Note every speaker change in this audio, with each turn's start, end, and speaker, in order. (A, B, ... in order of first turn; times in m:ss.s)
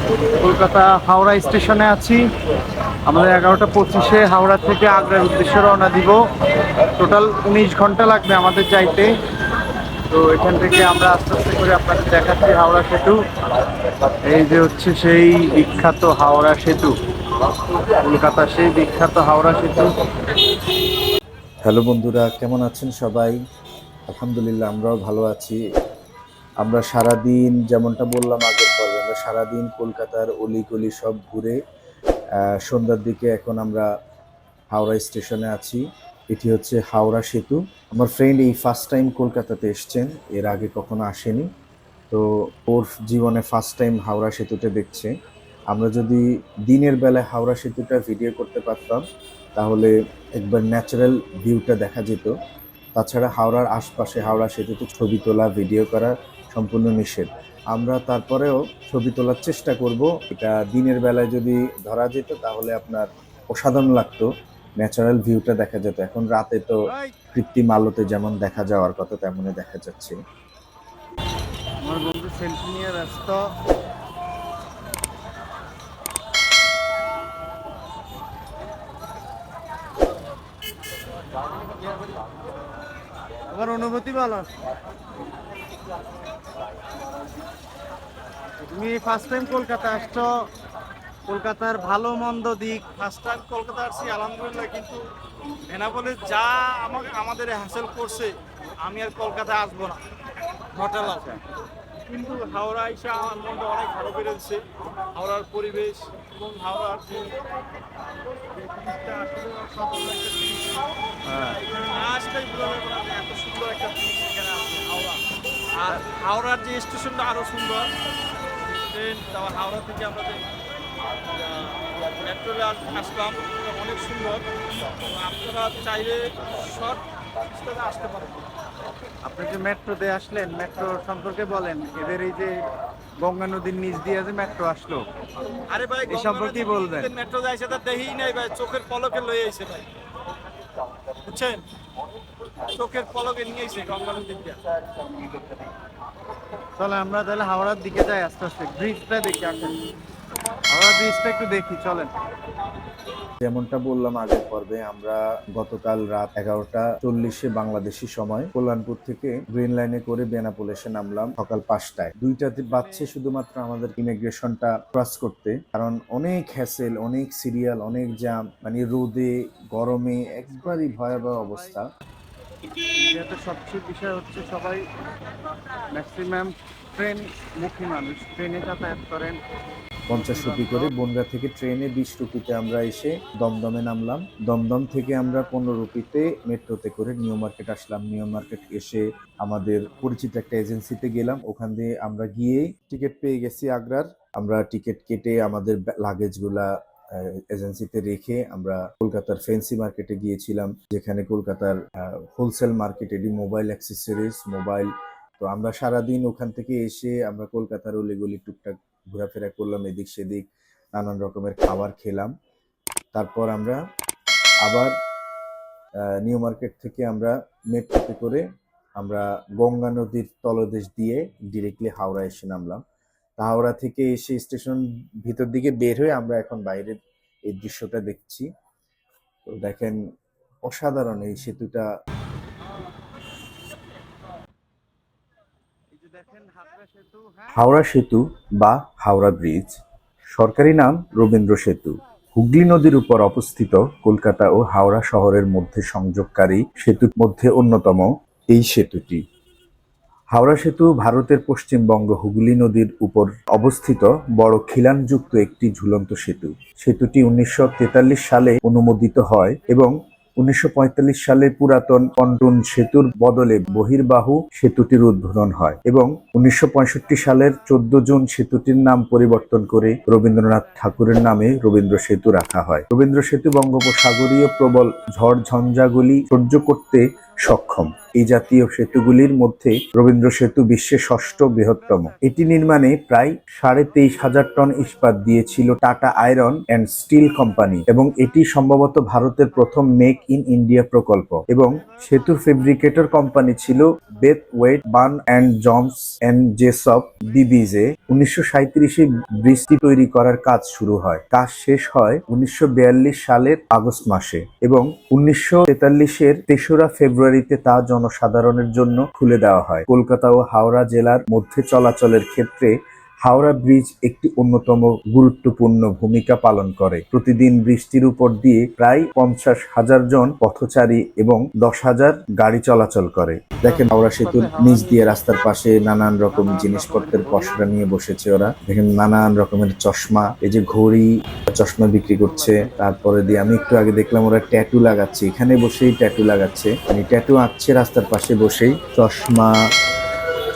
0:00.3-0:02.2 A
0:03.1-0:06.2 A
0:06.9-0:09.1 A
0:10.1-0:13.2 A
0:14.3-0:16.9 A
0:17.5-0:19.9 A
0:21.6-0:23.4 B
0:24.1-0:25.6 B
0:26.6-0:31.6 B
0:32.4-0:33.9 B
0:34.7-0:41.5 B
0:42.1-0:45.1 B
0:45.7-0:49.0 B
0:49.6-0:52.3 B
0:53.0-1:04.3 B
1:04.8-1:06.8 B
1:06.9-1:07.2 A
1:07.3-1:10.2 B
1:11.8-1:13.5 A
1:23.5-1:24.5 A
1:28.6-1:30.3 A
1:31.3-1:33.0 A
1:32.9-1:35.0 C
1:35.7-1:40.0 C
1:40.7-1:41.2 C
1:40.9-1:41.4 A
1:42.1-1:47.4 C
1:48.5-1:50.9 C
1:51.3-1:51.6 A
1:51.6-1:57.9 C
1:58.8-2:00.5 C
2:01.3-2:08.5 C
2:09.2-2:12.5 A
2:13.2-2:15.0 A
2:15.7-2:19.9 C
2:16.1-2:17.1 A
2:21.1-2:21.6 C
2:22.6-2:24.6 C
2:26.8-2:29.8 A
2:30.7-2:32.1 A
2:33.4-2:51.8 B
2:42.6-2:43.1 A
2:50.5-2:51.8 A
2:53.0-2:54.8 A
2:55.9-2:59.4 A
3:00.1-3:32.3 B
3:00.1-3:00.9 A
3:09.8-3:10.1 A
3:33.1-3:33.8 B
3:34.6-3:34.9 B
3:36.1-3:38.4 B
3:39.0-3:42.8 B
3:43.4-3:47.0 B
3:47.5-3:48.5 B
3:49.5-3:50.0 B
3:50.7-3:51.8 B
3:55.9-3:57.7 A
3:57.5-3:59.8 B
4:00.3-4:09.2 B
4:10.3-5:12.7 B
5:13.2-5:39.6 B
5:23.6-5:25.2 A
5:26.3-5:27.6 A
5:32.2-5:32.7 A